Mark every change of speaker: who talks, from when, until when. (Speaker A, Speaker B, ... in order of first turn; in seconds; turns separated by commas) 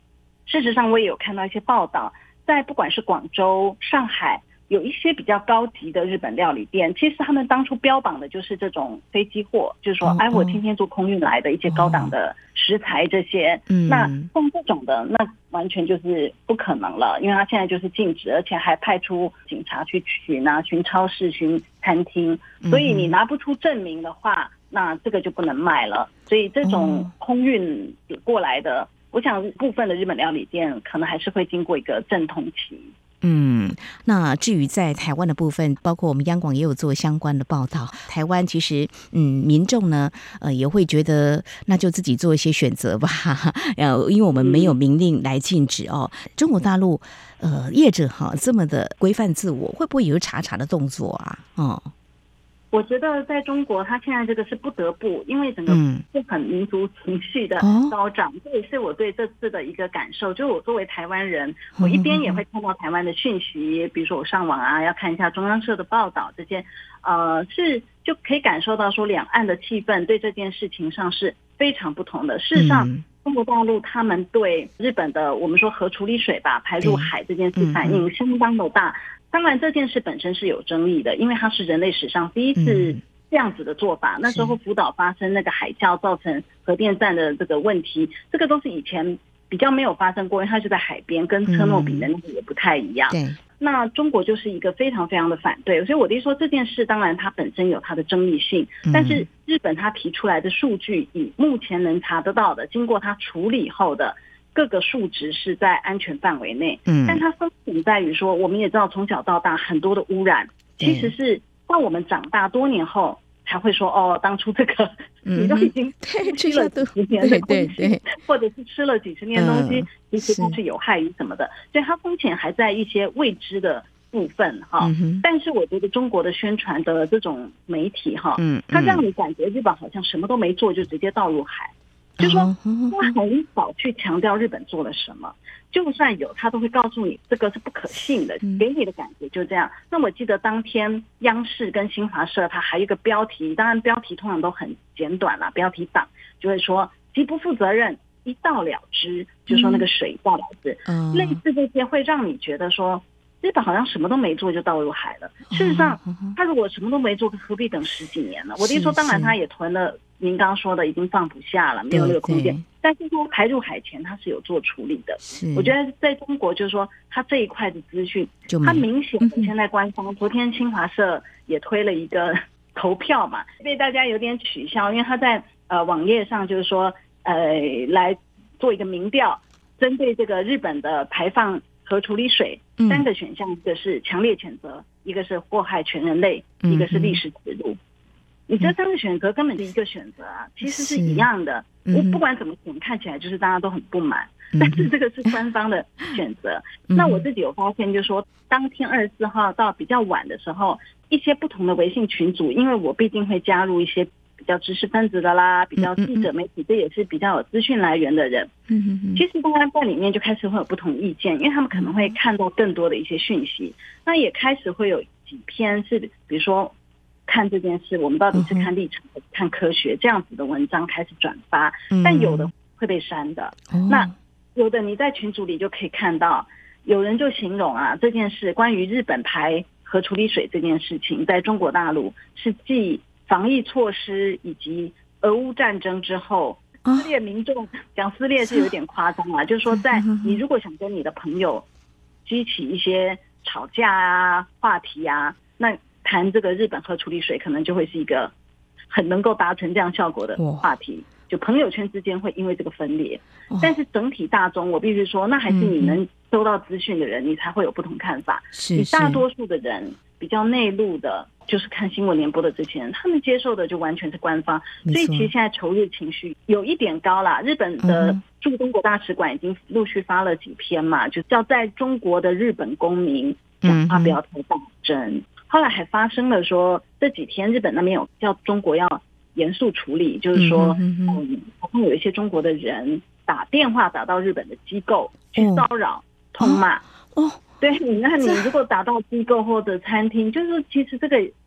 Speaker A: 0.5-32.9, Speaker B: 10.0-10.6, Speaker B: 11.7-12.1, Speaker B: 13.7-14.3, Speaker B: 22.6-23.1, Speaker B: 26.6-27.1, Speaker B: 33.2-51.9, Speaker A: 44.3-44.8, Speaker A: 52.7-187.8, Speaker B: 55.7-56.0, Speaker B: 57.6-58.0, Speaker B: 61.8-62.4, Speaker B: 72.6-73.0, Speaker B: 76.8-78.0, Speaker B: 82.6-83.0, Speaker B: 84.3-84.6, Speaker B: 91.5-92.1, Speaker B: 93.1-93.4, Speaker B: 98.9-99.2, Speaker B: 106.9-107.2, Speaker B: 110.8-111.1, Speaker B: 115.2-118.0, Speaker B: 119.3-120.5, Speaker B: 124.8-125.2, Speaker B: 128.4-129.0, Speaker B: 132.2-133.1, Speaker B: 149.5-149.9, Speaker B: 150.9-151.4, Speaker B: 155.5-156.3, Speaker B: 158.6-159.3, Speaker B: 161.9-162.7, Speaker B: 165.2-165.8, Speaker B: 168.5-169.5, Speaker B: 182.8-183.1, Speaker B: 186.6-187.2, Speaker A: 188.5-208.5, Speaker B: 190.6-191.3, Speaker B: 191.9-192.2, Speaker B: 194.5-194.9, Speaker B: 196.9-197.2, Speaker B: 205.8-206.3, Speaker B: 208.7-209.2, Speaker A: 209.2-216.7, Speaker B: 211.8-212.1, Speaker A: 217.3-241.7, Speaker B: 218.3-218.7, Speaker B: 221.9-222.5, Speaker B: 223.7-224.1, Speaker B: 239.7-240.4, Speaker A: 242.2-248.3, Speaker A: 248.9-286.8, Speaker B: 250.4-250.7, Speaker B: 253.5-253.8, Speaker B: 255.5-256.0, Speaker B: 258.5-259.2, Speaker B: 264.9-265.3, Speaker B: 267.8-268.2, Speaker B: 273.6-274.2, Speaker B: 280.4-281.2, Speaker B: 285.4-285.7, Speaker B: 287.1-287.4, Speaker A: 287.6-291.3